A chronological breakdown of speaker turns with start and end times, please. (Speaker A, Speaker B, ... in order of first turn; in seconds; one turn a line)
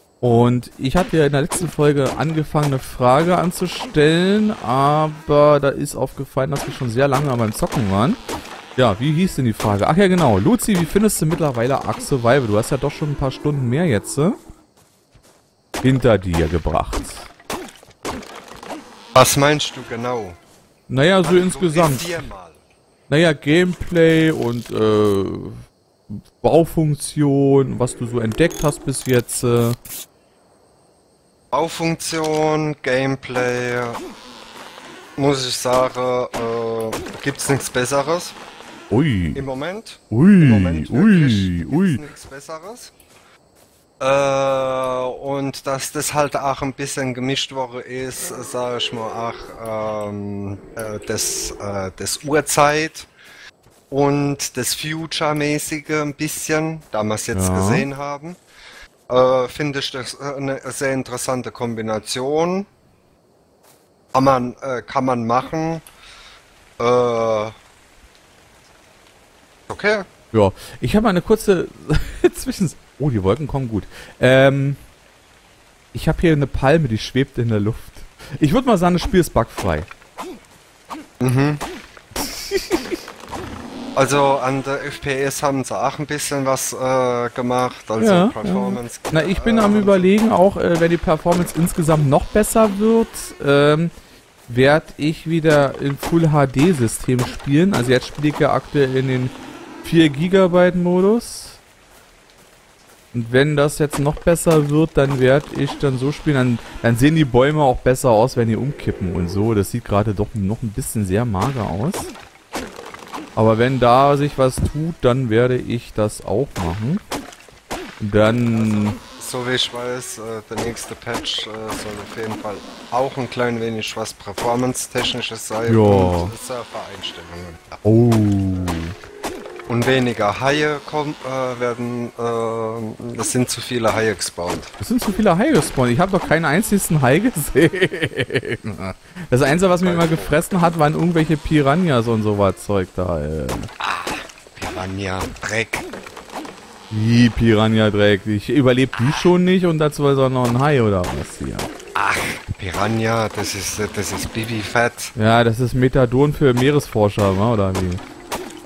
Speaker A: 0.2-8.2
Speaker A: 8.8-14.4
Speaker A: 15.8-17.3
Speaker B: 19.1-20.4
Speaker A: 20.9-22.3
Speaker B: 21.2-22.6
Speaker A: 23.1-25.6
Speaker A: 26.1-29.8
Speaker B: 31.5-34.0
Speaker B: 35.2-38.4
Speaker A: 38.9-39.4
Speaker B: 39.3-42.9
Speaker A: 40.1-42.0
Speaker B: 44.0-53.1
Speaker B: 53.9-58.4
Speaker A: 57.3-57.9
Speaker B: 59.1-62.7
Speaker B: 64.1-65.8
Speaker B: 66.8-67.5
Speaker B: 69.7-70.1
Speaker A: 70.3-74.8
Speaker A: 75.9-79.9
Speaker B: 81.2-81.6
Speaker A: 82.2-83.0
Speaker B: 84.0-90.1
Speaker A: 88.0-93.9
Speaker A: 94.5-101.6
Speaker A: 103.1-112.1
Speaker A: 113.3-117.0
Speaker A: 118.0-119.0
Speaker B: 119.1-127.8
Speaker A: 125.7-126.3
Speaker A: 127.8-128.9
Speaker B: 129.7-134.7
Speaker A: 134.8-143.7
Speaker B: 139.8-140.4
Speaker B: 143.8-145.9
Speaker A: 146.9-151.7
Speaker B: 151.9-155.1
Speaker A: 155.1-158.0